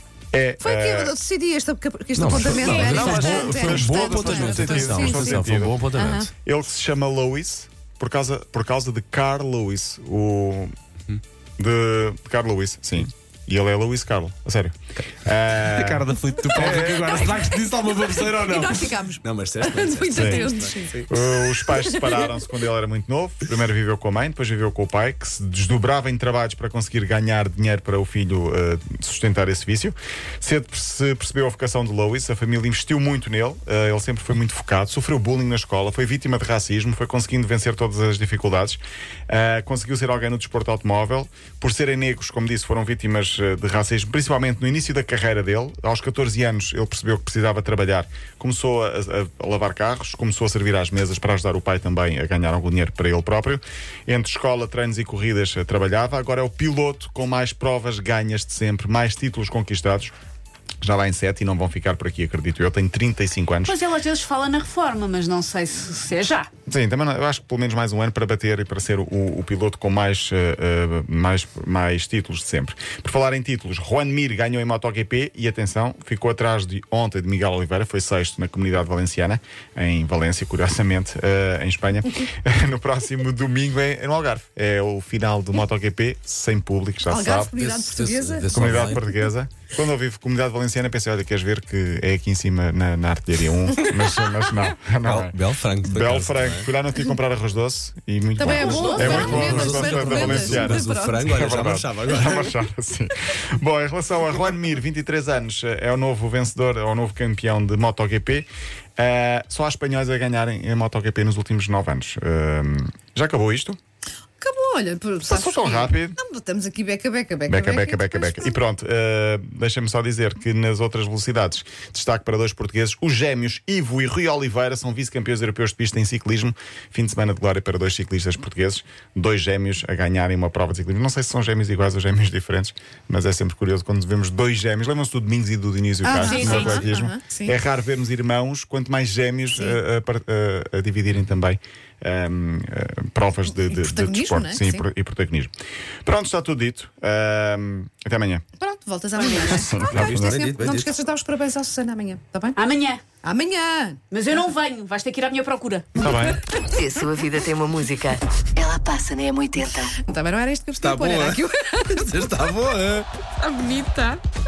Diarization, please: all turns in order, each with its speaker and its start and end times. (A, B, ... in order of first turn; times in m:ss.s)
0:00.3-0:01.2 A
0:00.6-0:06.3 B
0:02.2-0:06.3 C
0:02.3-0:05.8 A
0:02.6-0:03.0 D
0:06.4-0:10.7 A
0:11.6-0:17.3 A
0:15.6-0:21.1 C
0:16.5-0:22.3 B
0:20.1-0:20.5 A
0:21.0-1:00.1 A
1:00.8-1:03.8 A
1:03.6-1:06.5 D
1:06.7-1:27.5 A
1:27.1-1:28.8 B
1:27.5-1:29.0 C
1:28.5-1:53.8 A
1:35.0-1:36.7 C
1:38.4-1:41.3 B
1:38.5-1:39.3 D
1:38.6-1:42.6 C
1:54.4-1:58.6 B
1:55.2-1:56.2 A
1:57.5-2:25.5 A
2:16.0-2:17.6 B
2:16.1-2:16.9 D
2:19.5-2:19.8 B
2:23.5-2:24.8 B
2:26.0-2:28.4 A
2:28.6-2:32.6 B
2:29.1-2:29.7 D
2:29.5-2:30.4 A
2:29.9-2:31.0 C
2:32.6-2:33.0 D
2:33.2-2:34.0 B
2:34.1-2:36.1 D
2:36.0-2:36.4 A
2:36.0-2:37.0 B
2:36.7-2:39.8 E
2:38.6-2:42.6 B
2:40.8-2:43.1 C
2:43.4-2:44.2 B